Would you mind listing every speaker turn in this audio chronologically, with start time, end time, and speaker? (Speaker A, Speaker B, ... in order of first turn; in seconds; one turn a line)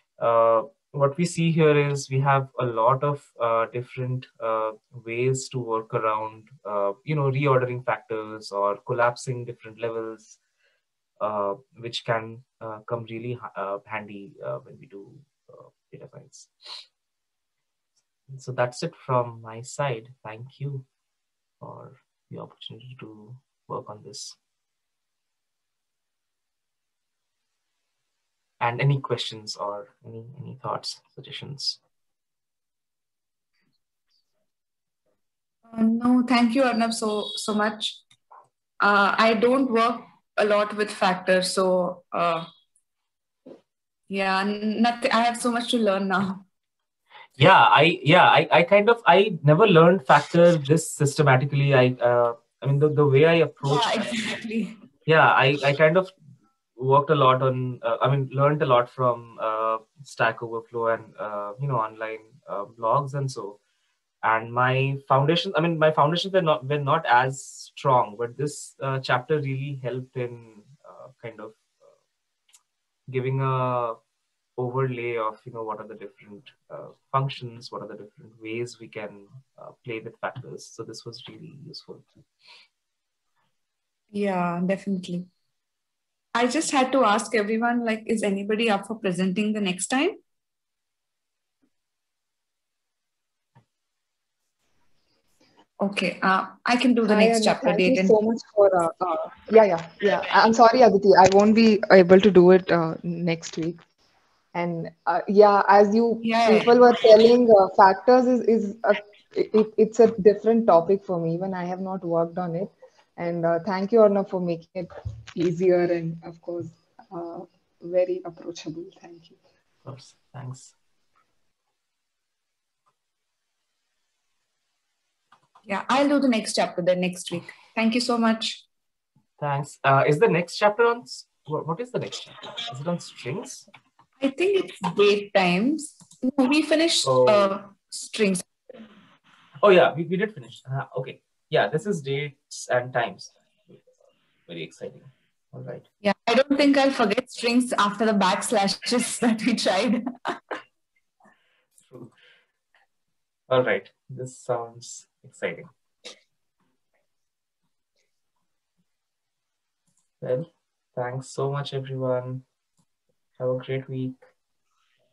Speaker A: 0.2-10.4
Speaker A: 11.2-16.8
Speaker A: 18.3-20.9
Speaker A: 21.6-24.4
Speaker A: 28.6-31.8
Speaker B: 35.7-38.0
Speaker B: 38.8-42.5
Speaker B: 44.1-46.4
Speaker A: 47.4-54.1
Speaker B: 53.7-54.8
Speaker A: 55.1-56.1
Speaker A: 56.8-63.6
Speaker A: 64.2-71.7
Speaker A: 73.1-74.0
Speaker A: 74.6-82.1
Speaker B: 84.1-85.3
Speaker B: 86.3-90.2
Speaker B: 95.8-98.2
Speaker C: 97.1-103.8
Speaker C: 104.5-119.4
Speaker B: 106.2-106.8
Speaker A: 119.8-120.8
Speaker B: 125.7-128.6
Speaker A: 129.4-133.7
Speaker B: 134.2-138.4
Speaker A: 137.0-137.6
Speaker A: 139.6-143.3
Speaker A: 144.5-145.8
Speaker B: 146.0-150.5
Speaker A: 151.9-152.1
Speaker A: 153.5-155.7
Speaker A: 160.2-162.4
Speaker A: 163.4-164.2